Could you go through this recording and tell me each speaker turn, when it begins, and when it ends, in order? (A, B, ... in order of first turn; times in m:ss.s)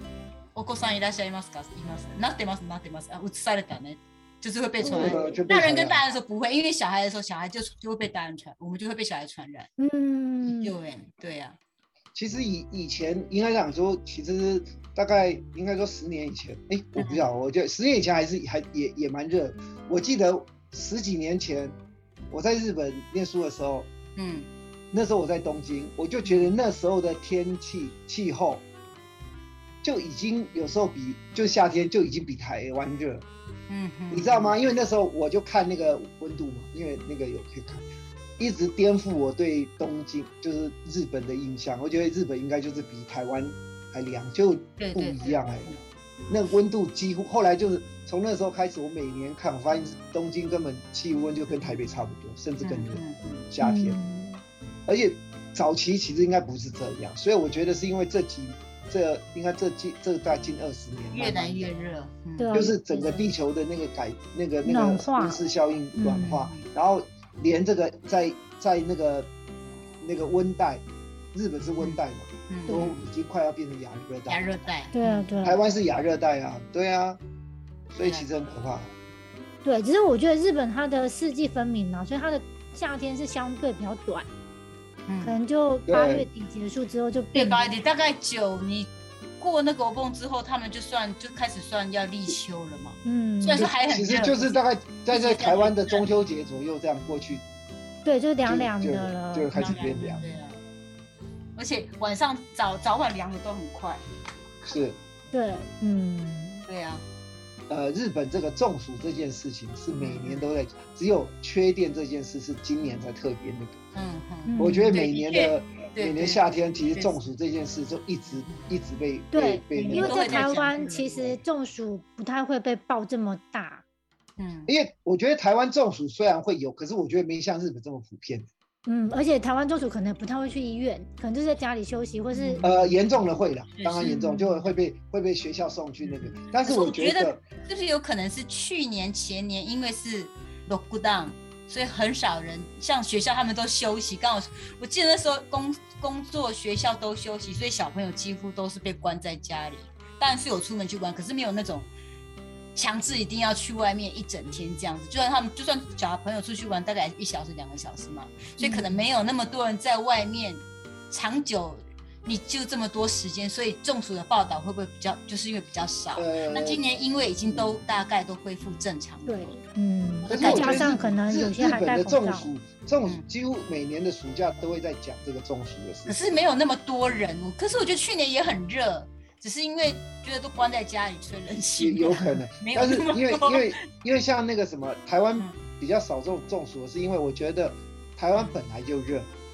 0:00.5-0:09.7 A
0:04.8-0:05.4 B
0:04.9-0:06.0 C
0:09.8-0:10.7 B
0:10.6-0:11.6 A
0:12.1-0:21.8 C
0:17.0-0:17.2 A
0:22.3-0:23.9 C
0:24.2-0:24.5 A
0:24.9-0:28.6 C
0:26.2-0:26.5 A
0:29.8-0:33.2 C
0:33.7-0:34.6 A
0:34.1-0:37.8 C
0:38.4-0:45.7 C
0:44.8-0:45.8 A
0:46.3-0:54.0 C
0:52.6-0:53.4 A
0:53.6-0:54.4 B
0:54.9-1:01.7 C
1:01.1-1:03.2 A
1:02.4-1:02.8 B
1:02.5-1:09.3 C
1:04.6-1:05.4 B
1:06.0-1:06.3 B
1:06.1-1:06.6 A
1:10.0-1:14.4 C
1:12.5-1:13.0 A
1:14.3-1:15.3 A
1:14.9-1:15.6 B
1:15.4-1:17.2 C
1:17.9-1:18.9 C
1:18.0-1:18.2 A
1:19.6-1:24.3 B
1:25.1-1:25.4 A
1:25.2-1:27.7 B
1:25.9-1:26.3 C
1:27.3-1:36.0 A
1:33.0-1:33.7 B
1:33.6-1:37.4 C
1:38.0-1:39.7 B
1:38.4-1:40.2 C
1:39.5-1:40.6 A
1:41.6-1:44.0 A
1:44.6-1:45.0 C
1:45.3-1:46.6 B
1:46.7-1:47.0 A
1:47.7-1:53.8 C
1:50.0-1:50.5 A
1:53.9-1:57.2 A
1:54.5-1:54.9 B
1:54.6-2:01.4 C
1:59.3-2:03.8 B
1:59.8-2:01.2 A
2:04.4-2:04.7 A
2:04.7-2:08.5 C
2:08.8-2:12.6 B
2:12.3-2:12.9 A
2:12.6-2:17.4 C
2:13.7-2:14.7 A
2:16.0-2:31.9 A
2:32.7-2:49.6 A
2:38.6-2:39.0 B
2:46.1-2:46.8 C
2:47.5-2:47.8 C
2:49.2-2:52.5 B
2:50.2-2:51.1 A
2:50.3-2:56.2 C
2:56.1-3:03.8 A
3:01.8-3:09.3 C